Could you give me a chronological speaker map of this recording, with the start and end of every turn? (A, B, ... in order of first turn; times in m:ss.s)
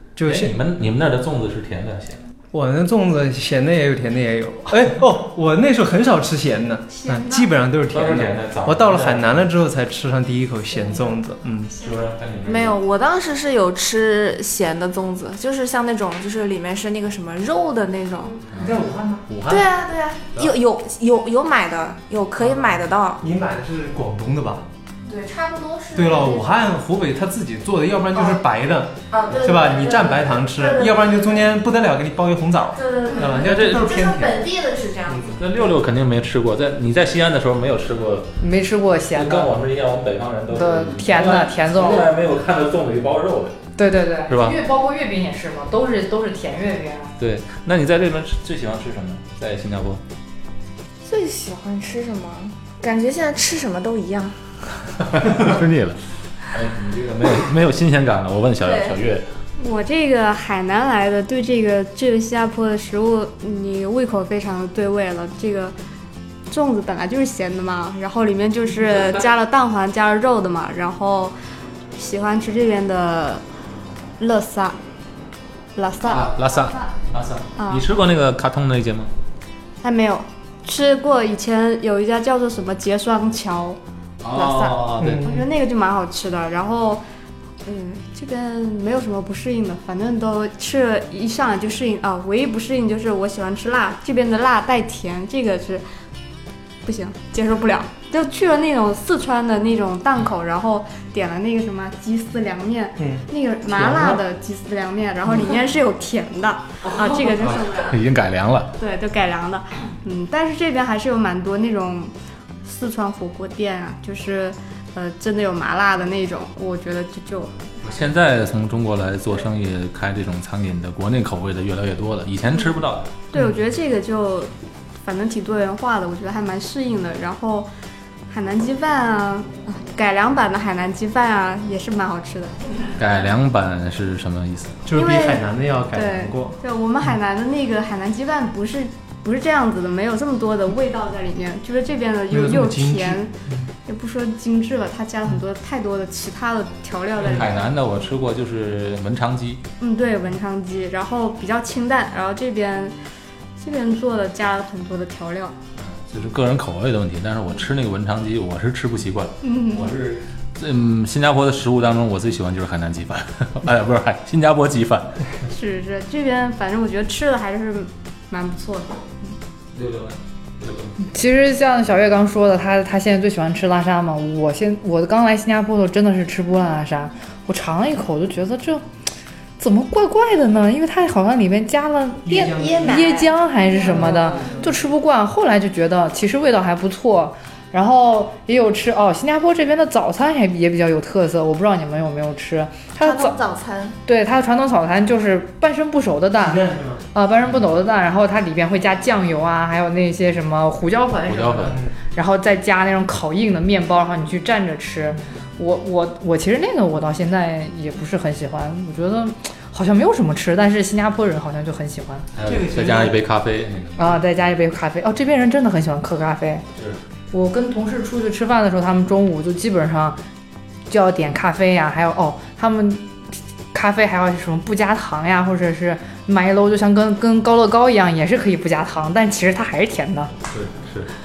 0:00.2-0:00.6 A
0:00.2-0:02.2 B
0:02.5-0:11.7 A
0:06.9-0:07.5 C
0:07.9-0:09.5 B
0:10.8-0:11.1 C
0:11.8-0:12.8 B
0:12.4-0:18.4 D
0:18.5-0:19.6 B
0:18.6-0:19.6 A
0:19.5-0:23.2 D
0:22.4-0:24.6 A
0:25.1-0:26.7 D
0:25.9-0:34.4 A
0:28.1-0:28.4 D
0:29.1-0:31.2 D
0:32.8-0:35.4 D
0:33.4-0:33.8 B
0:35.1-0:35.4 A
0:35.4-0:38.3 B
0:38.4-0:39.6 E
0:39.1-0:43.6 B
0:40.5-0:42.1 E
0:43.8-0:47.1 E
0:44.3-0:44.6 B
0:47.2-0:50.0 B
0:51.0-0:54.6 D
0:55.1-0:59.2 B
0:58.6-0:59.0 D
0:59.6-1:05.8 C
1:06.5-1:11.4 C
1:12.0-1:13.4 C
1:14.2-1:14.8 C
1:15.7-1:16.8 C
1:16.0-1:19.1 B
1:17.6-1:17.8 C
1:19.8-1:23.8 C
1:24.2-1:25.3 B
1:24.3-1:27.0 C
1:25.0-1:25.4 A
1:27.6-1:35.8 C
1:36.8-1:48.0 C
1:43.0-1:44.2 A
1:47.4-1:48.7 B
1:48.8-1:57.7 C
1:57.8-2:03.1 B
2:03.3-2:07.7 C
2:08.3-2:12.6 C
2:13.0-2:14.8 B
2:14.9-2:16.6 A
2:14.9-2:23.3 C
2:22.3-2:23.7 A
2:23.8-2:27.6 C
2:27.2-2:29.6 B
2:27.2-2:27.5 A
2:29.8-2:33.0 C
2:33.6-2:35.5 C
2:35.8-2:45.3 B
2:39.4-2:39.9 C
2:45.4-2:49.0 C
2:49.7-2:51.1 B
2:51.0-2:58.8 E
2:59.6-3:13.4 E
3:02.2-3:03.1 A
3:02.4-3:03.3 D
3:03.7-3:04.7 A
3:04.0-3:04.6 C
3:13.0-3:14.0 D
3:14.0-3:32.3 E
3:16.4-3:17.0 A
3:21.3-3:21.8 B
3:21.7-3:22.0 A
3:32.3-3:34.2 B
3:32.4-3:33.2 A
3:34.0-3:36.6 E
3:36.7-3:37.0 B
3:37.3-3:40.2 E
3:40.9-3:43.2 E
3:43.7-3:50.3 E
3:50.5-3:51.1 B